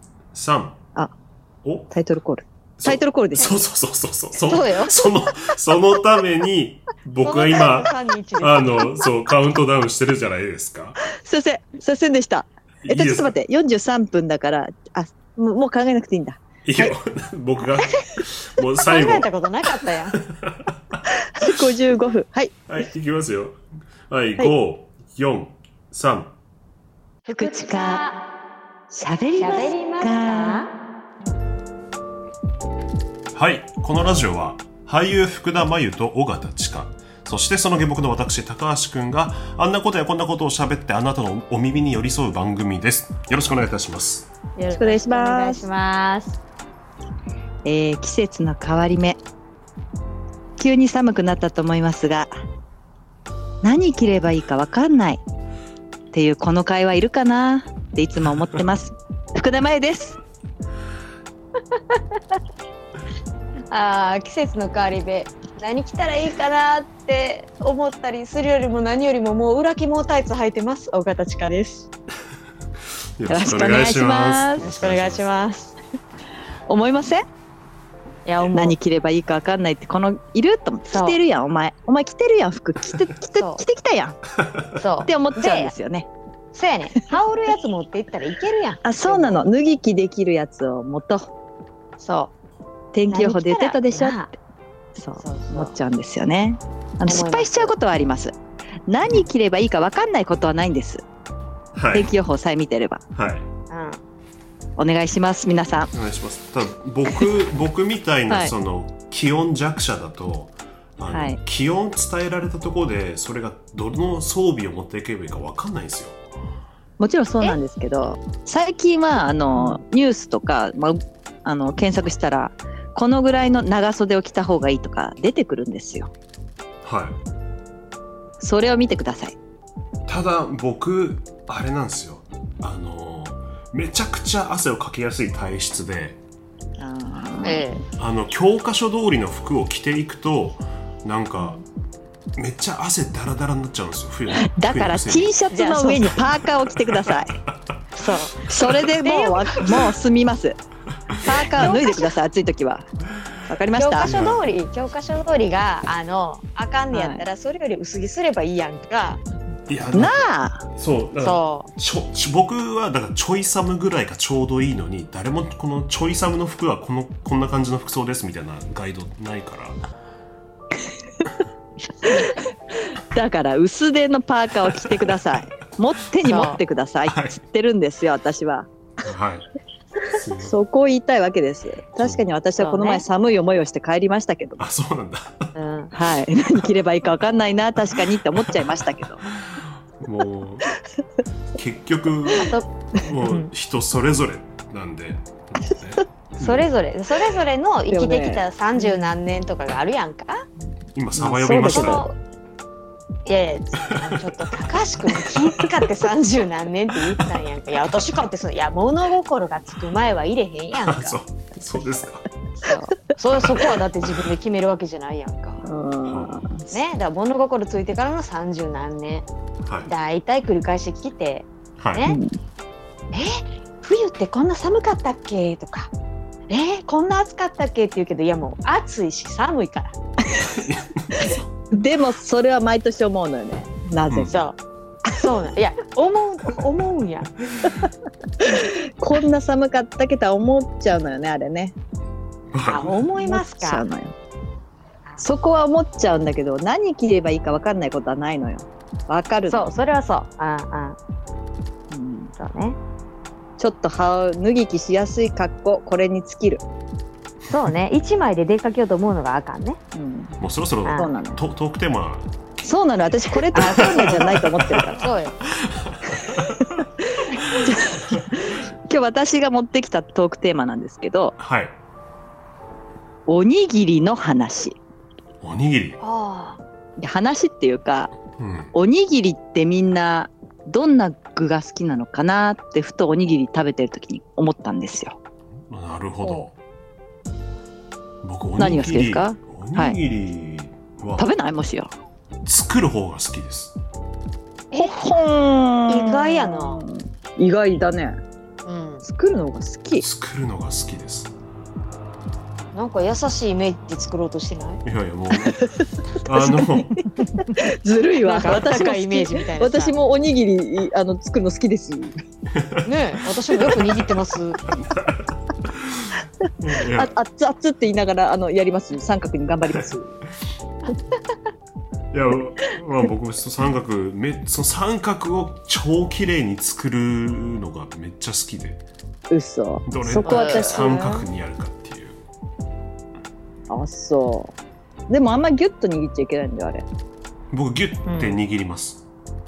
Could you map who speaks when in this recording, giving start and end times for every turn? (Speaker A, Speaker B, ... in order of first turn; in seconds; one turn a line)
Speaker A: 0.3-0.8
Speaker A: 1.6-1.9
Speaker B: 1.9-3.5
Speaker A: 2.8-11.0
Speaker C: 4.4-5.1
Speaker C: 7.2-8.9
Speaker B: 11.1-16.9
Speaker A: 12.8-13.3
Speaker A: 16.6-19.3
Speaker C: 18.8-20.2
Speaker A: 20.2-20.9
Speaker B: 21.3-22.8
Speaker A: 22.7-23.6
Speaker A: 24.1-26.3
Speaker C: 27.2-28.2
Speaker B: 27.4-28.0
Speaker B: 28.9-30.6
Speaker C: 29.4-30.7
Speaker A: 33.3-44.3
Speaker C: 44.5-46.4
Speaker B: 44.7-45.7
Speaker B: 47.6-49.2
Speaker B: 50.6-52.3
Speaker B: 53.6-55.2
Speaker B: 56.1-60.2
Speaker C: 63.7-71.9
Speaker A: 73.2-75.2
Speaker B: 73.3-74.6
Speaker C: 74.6-75.8
Speaker B: 76.7-77.2
Speaker C: 78.2-78.8
Speaker B: 78.5-84.2
Speaker C: 80.9-81.2
Speaker C: 83.3-83.6
Speaker C: 84.8-85.7
Speaker B: 85.0-86.1
Speaker C: 86.5-89.4
Speaker B: 88.8-91.3
Speaker C: 92.0-92.3
Speaker B: 92.9-94.3
Speaker C: 93.1-94.3
Speaker B: 94.9-98.3
Speaker C: 95.2-95.7
Speaker C: 97.0-97.7
Speaker B: 98.9-101.0
Speaker A: 101.7-102.1
Speaker B: 101.9-103.0
Speaker A: 103.1-103.5
Speaker C: 103.7-104.0
Speaker B: 104.8-105.9
Speaker A: 105.9-116.2
Speaker B: 111.1-111.4
Speaker B: 117.0-126.1
Speaker C: 119.5-119.8
Speaker A: 126.8-127.2
Speaker B: 128.4-129.3
Speaker A: 130.1-136.2
Speaker B: 136.8-137.6
Speaker C: 137.4-137.8
Speaker A: 138.0-141.6
Speaker A: 142.4-145.3
Speaker B: 144.3-147.4
Speaker C: 145.5-146.2
Speaker C: 147.9-149.9
Speaker B: 148.4-150.6
Speaker A: 151.1-151.7
Speaker B: 151.2-152.8
Speaker C: 151.5-152.1
Speaker B: 153.5-154.1
Speaker C: 153.8-159.2
Speaker A: 154.0-154.5
Speaker B: 156.9-157.3
Speaker A: 159.7-160.2
Speaker B: 159.9-160.7
Speaker A: 160.7-169.8
Speaker C: 161.2-161.7
Speaker B: 172.1-172.3
Speaker B: 173.1-178.7
Speaker C: 176.2-176.6
Speaker A: 177.1-177.4
Speaker A: 179.0-179.5
Speaker A: 180.1-180.5
Speaker B: 180.4-184.6
Speaker A: 182.0-182.3
Speaker C: 182.6-183.0
Speaker A: 184.6-185.5
Speaker C: 185.5-185.9
Speaker B: 185.9-189.2
Speaker A: 189.2-190.7
Speaker A: 191.5-196.7
Speaker C: 192.3-192.7
Speaker C: 193.2-193.5
Speaker C: 196.4-200.4
Speaker B: 197.9-199.1
Speaker A: 200.9-202.1
Speaker B: 201.2-202.1
Speaker C: 201.5-202.2
Speaker C: 203.2-211.2
Speaker A: 203.8-204.7
Speaker A: 210.8-212.2
Speaker C: 212.6-215.6
Speaker B: 215.6-216.7
Speaker A: 216.1-216.6
Speaker C: 216.7-219.3
Speaker A: 219.6-219.9
Speaker C: 219.8-222.2
Speaker A: 221.8-222.1
Speaker B: 222.1-222.3
Speaker C: 223.8-225.9
Speaker C: 226.5-229.9
Speaker A: 230.4-231.5
Speaker B: 231.7-234.5
Speaker C: 234.3-234.6
Speaker C: 235.1-237.3
Speaker B: 238.4-241.7
Speaker A: 242.5-243.1
Speaker C: 242.7-243.9
Speaker B: 243.2-244.1
Speaker B: 245.2-249.7
Speaker C: 249.5-251.0
Speaker B: 251.9-252.3
Speaker C: 252.3-252.8
Speaker B: 253.6-256.6
Speaker C: 257.5-259.8
Speaker B: 259.9-260.3
Speaker A: 260.4-262.3
Speaker C: 260.9-261.1
Speaker B: 260.9-261.4
Speaker B: 262.6-265.1
Speaker C: 263.3-264.4
Speaker A: 263.6-265.0
Speaker C: 265.0-265.3
Speaker A: 265.6-266.6
Speaker B: 267.4-271.4
Speaker A: 271.4-271.8
Speaker B: 273.3-274.8
Speaker A: 275.4-276.0
Speaker C: 276.0-276.6
Speaker B: 277.0-278.1
Speaker A: 278.4-278.7
Speaker B: 278.7-285.2
Speaker A: 285.7-286.6
Speaker A: 288.2-291.2
Speaker B: 288.6-290.0
Speaker B: 291.2-291.9
Speaker A: 292.4-293.8
Speaker C: 294.7-295.0
Speaker B: 294.7-298.2
Speaker C: 295.9-296.8
Speaker C: 298.6-299.0
Speaker B: 299.0-300.0
Speaker A: 300.0-301.3
Speaker C: 302.7-304.8
Speaker A: 304.8-307.0
Speaker B: 305.5-307.0
Speaker C: 307.2-307.5
Speaker B: 307.6-312.1
Speaker C: 308.2-309.9
Speaker A: 312.5-312.9
Speaker C: 312.8-314.7
Speaker A: 314.7-317.1
Speaker B: 316.9-320.1
Speaker A: 322.1-328.8
Speaker B: 329.3-331.0
Speaker A: 329.9-332.2
Speaker C: 330.2-331.2
Speaker B: 333.7-334.5
Speaker B: 335.1-336.8
Speaker A: 337.5-339.0
Speaker C: 338.1-338.4